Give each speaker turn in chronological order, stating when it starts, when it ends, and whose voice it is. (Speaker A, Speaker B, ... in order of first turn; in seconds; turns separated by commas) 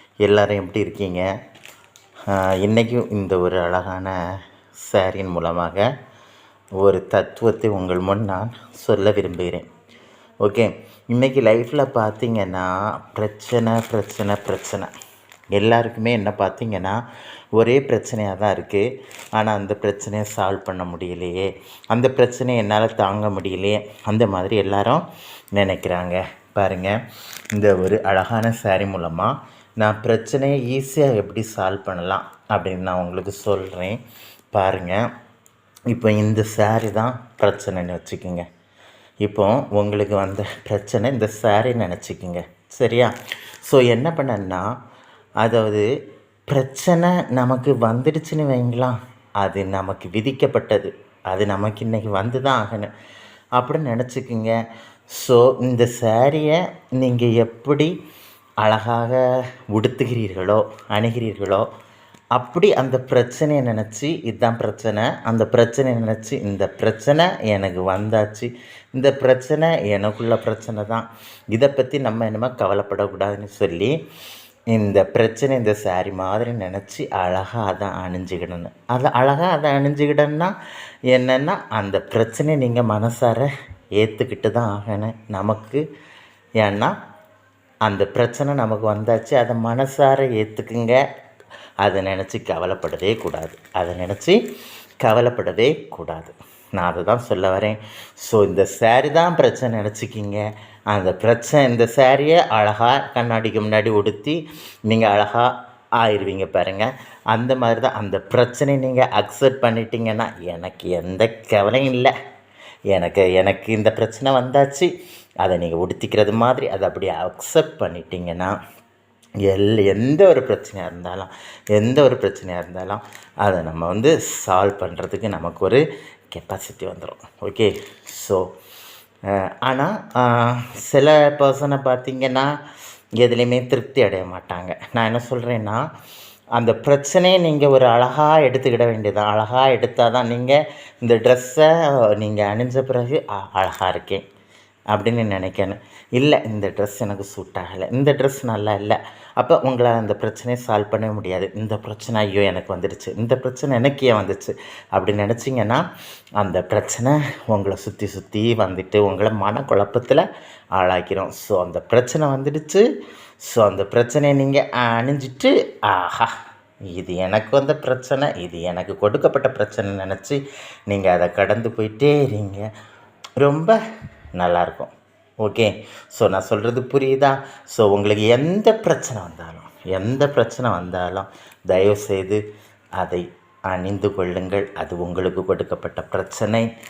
Speaker A: 0.2-1.2, Speaker A: 2.3-4.1, Speaker A: 4.9-5.8, Speaker A: 6.8-9.7, Speaker A: 10.4-14.9, Speaker A: 15.6-17.0, Speaker A: 17.6-27.0, Speaker A: 27.5-34.0, Speaker A: 34.5-35.0, Speaker A: 35.9-38.5, Speaker A: 39.2-43.1, Speaker A: 43.6-44.6, Speaker A: 45.4-45.9, Speaker A: 46.5-52.9, Speaker A: 53.6-54.5, Speaker A: 55.1-57.9, Speaker A: 58.6-59.2, Speaker A: 59.7-61.7, Speaker A: 62.4-73.9, Speaker A: 74.7-80.5, Speaker A: 81.1-85.8, Speaker A: 86.6-86.9, Speaker A: 87.8-91.0, Speaker A: 91.8-94.4, Speaker A: 95.0-112.1, Speaker A: 112.9-114.9, Speaker A: 115.4-118.5, Speaker A: 119.5-125.8, Speaker A: 126.3-128.5, Speaker A: 129.7-132.5, Speaker A: 133.2-135.8, Speaker A: 136.6-144.2, Speaker A: 144.9-155.8, Speaker A: 156.4-160.2, Speaker A: 160.8-162.8, Speaker A: 163.5-166.3, Speaker A: 166.9-172.7, Speaker A: 173.4-173.8, Speaker A: 174.4-182.4, Speaker A: 183.0-186.7